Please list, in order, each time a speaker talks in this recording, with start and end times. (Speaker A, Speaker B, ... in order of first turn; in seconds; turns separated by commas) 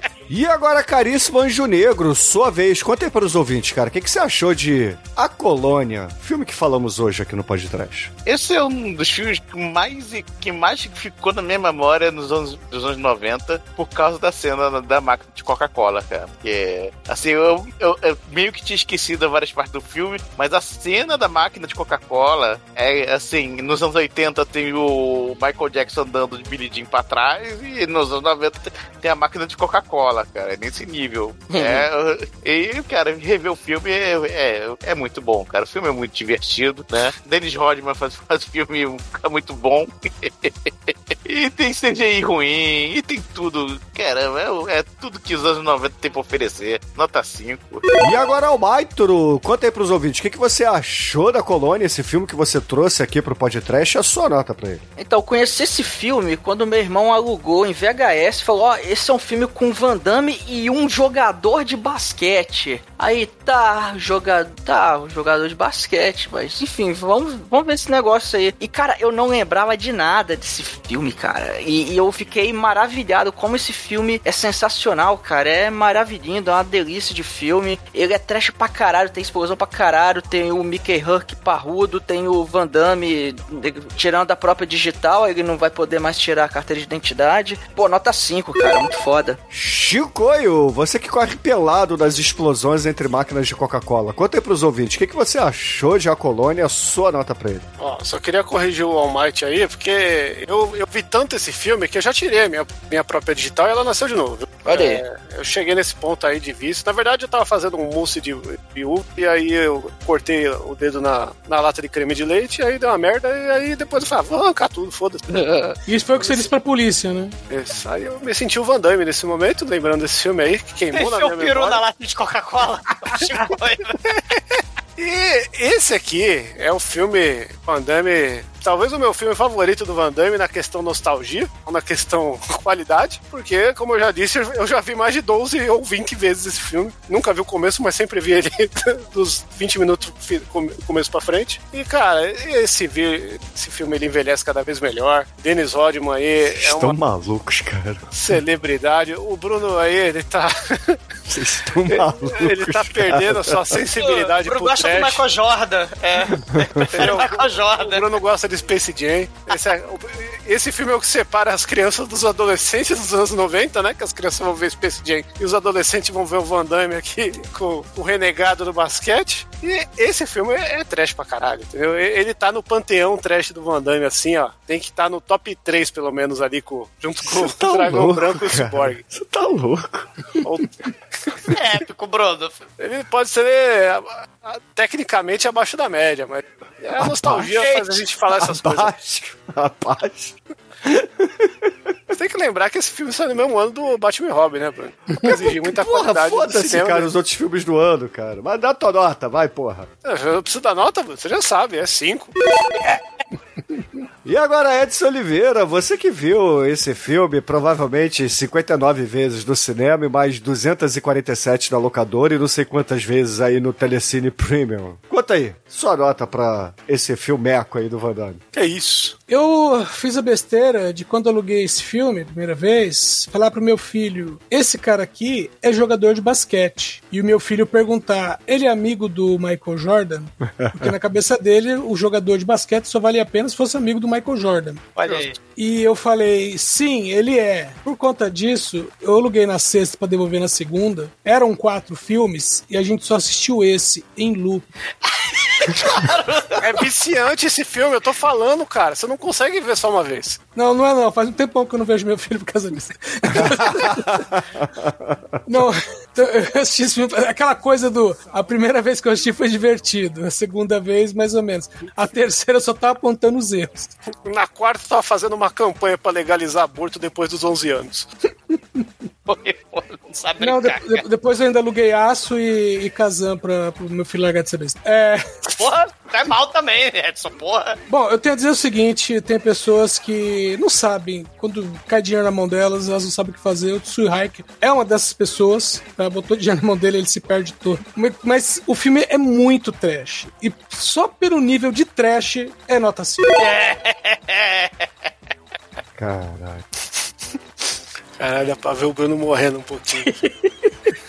Speaker A: 0.3-8.1, Speaker B: 8.3-48.0, Speaker C: 31.6-31.8, Speaker A: 48.0-54.8, Speaker C: 55.0-89.4, Speaker A: 89.5-97.7, Speaker D: 97.8-115.2, Speaker C: 104.6-105.0, Speaker C: 115.3-115.8, Speaker E: 115.9-117.4, Speaker D: 117.5-121.8, Speaker F: 120.9-124.0, Speaker D: 125.0-147.0, Speaker A: 146.5-148.0, Speaker D: 148.1-151.0, Speaker A: 151.3-153.6, Speaker D: 151.9-155.2, Speaker F: 154.0-158.1, Speaker A: 156.5-157.1, Speaker D: 156.9-179.0, Speaker A: 177.2-180.1, Speaker D: 180.4-181.3, Speaker F: 181.5-182.6, Speaker D: 182.8-188.9, Speaker A: 187.0-191.7, Speaker D: 192.1-197.1, Speaker A: 195.6-199.9, Speaker D: 200.0-202.3, Speaker A: 204.2-218.4, Speaker D: 218.5-219.2, Speaker E: 219.3-244.7, Speaker A: 230.6-230.9, Speaker F: 235.0-235.4, Speaker F: 245.1-246.6, Speaker D: 246.6-250.4, Speaker E: 250.6-254.2, Speaker A: 253.3-255.2, Speaker E: 255.5-263.9, Speaker D: 264.2-268.1, Speaker F: 269.3-271.0, Speaker E: 270.4-275.2, Speaker F: 275.6-277.8, Speaker E: 277.9-293.4, Speaker F: 293.4-294.9, Speaker A: 296.0-296.6, Speaker D: 298.2-300.2